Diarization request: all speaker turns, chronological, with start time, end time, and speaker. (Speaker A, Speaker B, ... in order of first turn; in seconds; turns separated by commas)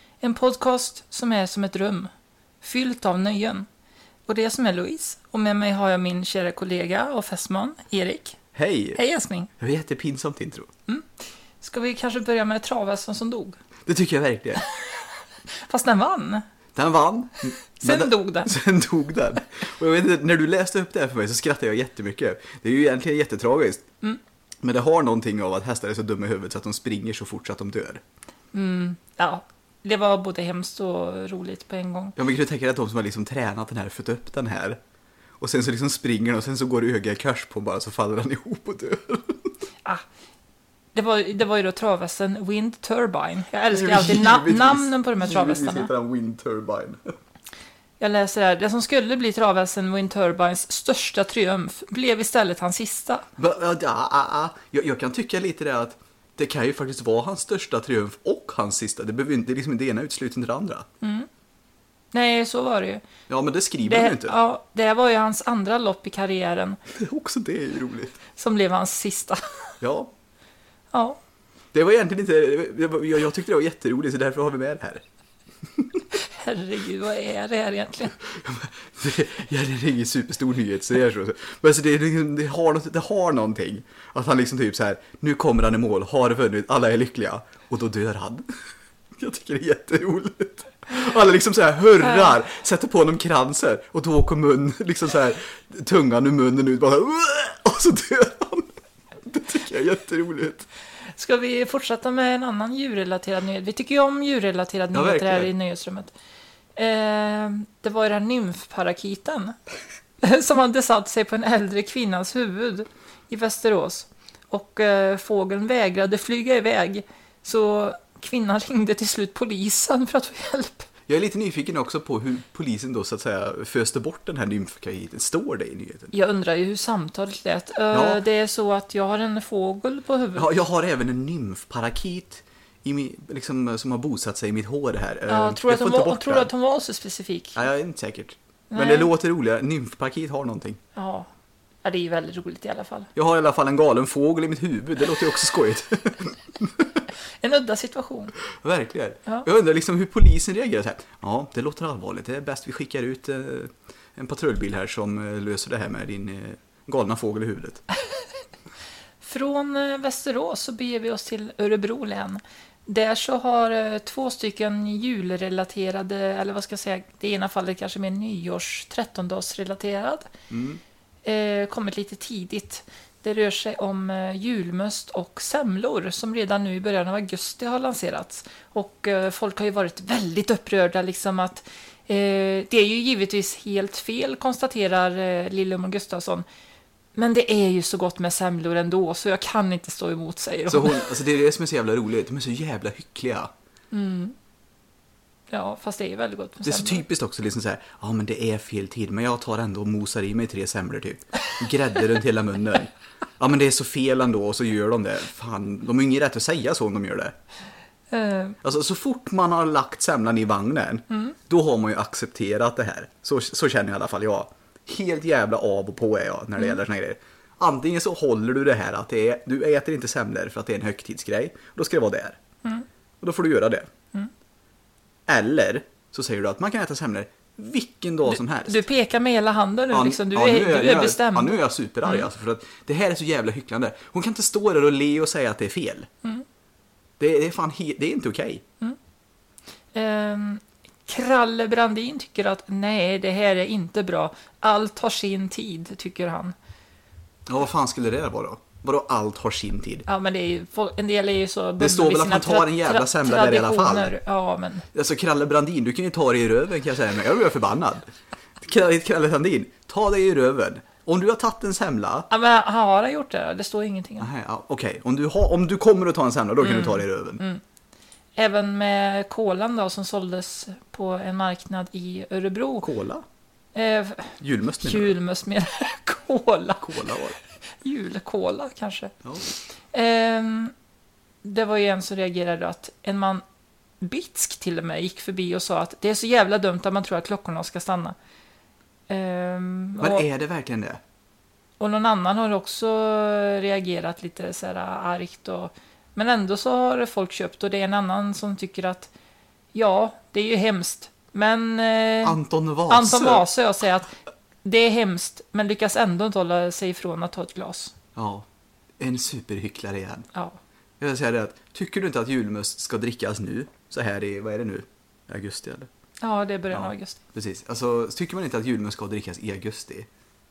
Speaker A: 0.2-2.1, Speaker A: 2.6-3.7, Speaker A: 4.3-8.4, Speaker B: 8.6-9.0, Speaker A: 9.0-9.5, Speaker B: 9.6-10.7, Speaker A: 10.9-13.6, Speaker B: 13.8-14.6, Speaker A: 14.6-16.4, Speaker B: 16.8-23.9, Speaker A: 17.8-18.6, Speaker B: 24.6-28.0, Speaker A: 28.5-32.2, Speaker B: 32.2-34.8, Speaker B: 35.4-39.5, Speaker A: 40.9-45.9, Speaker B: 43.7-47.2, Speaker A: 48.0-53.3, Speaker B: 53.4-60.9, Speaker A: 61.0-61.3, Speaker A: 62.1-63.0, Speaker B: 63.3-64.4, Speaker A: 63.8-66.8, Speaker B: 66.9-68.2, Speaker A: 68.3-69.7, Speaker B: 69.8-70.1, Speaker A: 70.9-71.2, Speaker B: 71.7-75.0, Speaker B: 75.7-76.0, Speaker A: 76.2-78.2, Speaker B: 78.2-88.5, Speaker B: 89.2-100.7, Speaker A: 92.0-92.3, Speaker A: 101.0-106.1, Speaker B: 104.9-105.5, Speaker A: 106.8-109.6, Speaker A: 110.2-120.9, Speaker B: 121.1-126.1, Speaker A: 126.1-130.5, Speaker B: 127.9-128.2, Speaker B: 130.3-136.5, Speaker A: 135.3-137.6, Speaker B: 137.6-140.8, Speaker A: 138.7-139.1, Speaker A: 140.9-141.3, Speaker A: 141.8-143.1, Speaker B: 143.2-147.1, Speaker A: 147.4-148.4, Speaker B: 148.5-157.8, Speaker A: 158.0-158.3, Speaker A: 159.2-170.3, Speaker B: 170.5-170.8, Speaker A: 171.2-186.4, Speaker A: 187.2-191.1, Speaker B: 190.7-193.5, Speaker A: 193.9-194.3, Speaker A: 195.5-197.1, Speaker B: 196.6-207.3, Speaker A: 208.1-208.6, Speaker B: 208.6-222.4, Speaker A: 211.1-211.4, Speaker B: 223.2-223.8, Speaker B: 225.3-228.8, Speaker A: 228.3-232.3, Speaker B: 229.9-236.1, Speaker B: 237.2-238.6, Speaker A: 239.9-246.6, Speaker B: 247.5-250.1, Speaker A: 250.1-254.9, Speaker B: 251.8-254.1, Speaker B: 254.9-262.3, Speaker A: 262.3-264.3, Speaker B: 264.2-267.4, Speaker A: 266.6-267.6, Speaker A: 268.4-272.9, Speaker B: 272.8-273.2, Speaker A: 273.8-280.7, Speaker B: 274.4-275.2, Speaker B: 276.8-277.4, Speaker A: 281.4-283.4, Speaker A: 284.0-288.2, Speaker A: 289.1-290.2, Speaker B: 290.0-291.0, Speaker A: 291.8-299.1, Speaker A: 299.7-302.4, Speaker B: 302.2-303.5, Speaker A: 302.9-307.9, Speaker B: 308.2-308.5, Speaker B: 309.0-310.3, Speaker B: 311.0-315.9, Speaker A: 316.2-317.2, Speaker B: 316.7-320.1